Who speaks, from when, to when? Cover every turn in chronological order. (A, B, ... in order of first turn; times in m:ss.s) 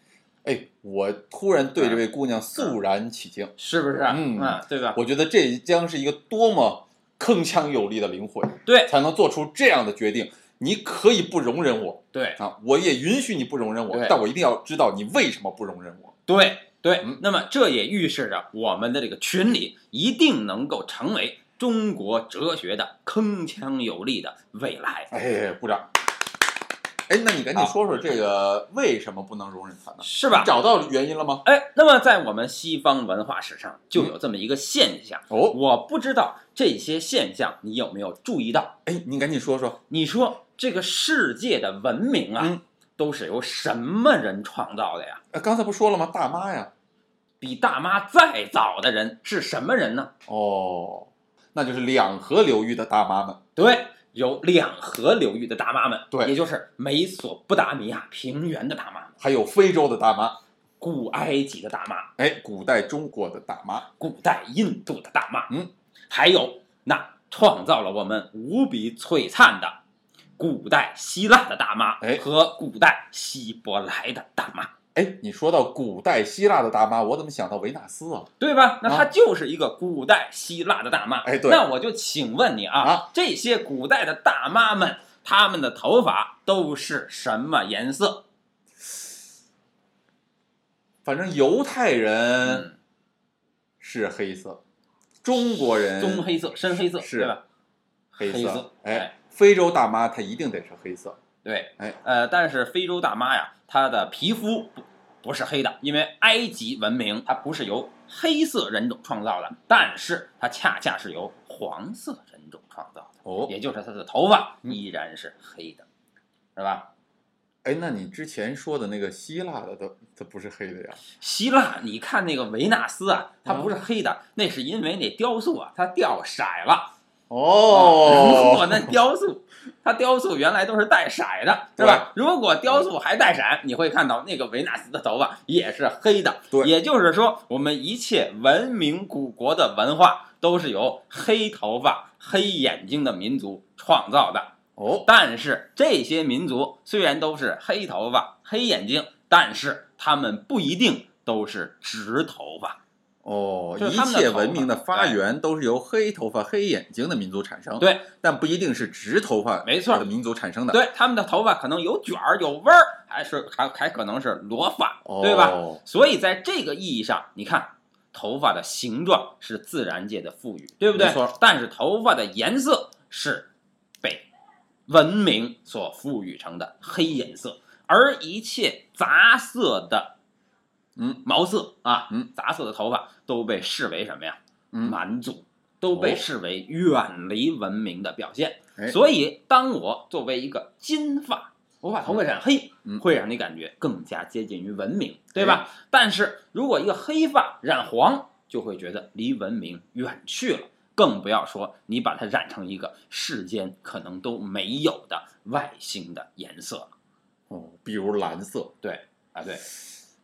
0:00.4-0:03.5 A
0:03.6-0:05.0 B
0:04.1-0:16.2 A
0:08.7-0:08.9 B
0:12.1-0:12.4 B
0:13.9-0:14.2 B
0:16.3-0:25.1 B
0:25.1-0:25.9 A
0:27.1-0:31.4 A
0:30.0-0:30.6 B
0:31.4-0:38.8 B
0:35.3-0:35.6 A
0:38.9-0:39.8 A
0:39.9-0:45.2 B
0:45.3-0:46.7 A
0:47.4-0:50.1 B
0:50.3-0:53.4 A
0:53.6-0:59.2 B
0:59.2-1:00.4 A
1:00.8-1:02.1 B
1:02.2-1:03.9 A
1:04.0-1:05.5 B
1:06.1-1:09.8 B
1:10.4-1:14.7 B
1:15.0-1:18.3 A
1:18.4-1:28.2 B
1:21.2-1:21.6 A
1:22.8-1:23.1 A
1:31.0-1:32.7 A
1:32.4-1:32.8 B
1:33.8-1:34.6 A
1:35.2-1:37.3 A
1:36.0-1:37.4 B
1:38.1-1:39.1 B
1:38.2-1:41.2 A
1:41.4-1:55.9 B
1:53.2-1:53.5 A
1:56.6-1:56.9 B
1:57.6-2:01.0 A
2:01.2-2:06.9 B
2:07.3-2:08.9 A
2:07.7-2:32.8 B
2:11.8-2:12.1 A
2:24.8-2:25.1 A
2:33.2-2:40.8 A
2:33.8-2:35.2 B
2:37.8-2:38.1 B
2:39.6-2:40.1 B
2:40.7-2:53.5 B
2:45.0-2:45.8 A
2:51.0-2:51.4 A
2:54.0-2:54.3 B
2:54.9-3:00.2 B
3:01.0-3:01.2 A
3:01.2-3:26.9 B
3:04.7-3:05.0 A
3:05.9-3:06.2 A
3:15.4-3:15.6 A
3:27.5-3:28.7 A
3:28.8-3:29.7 B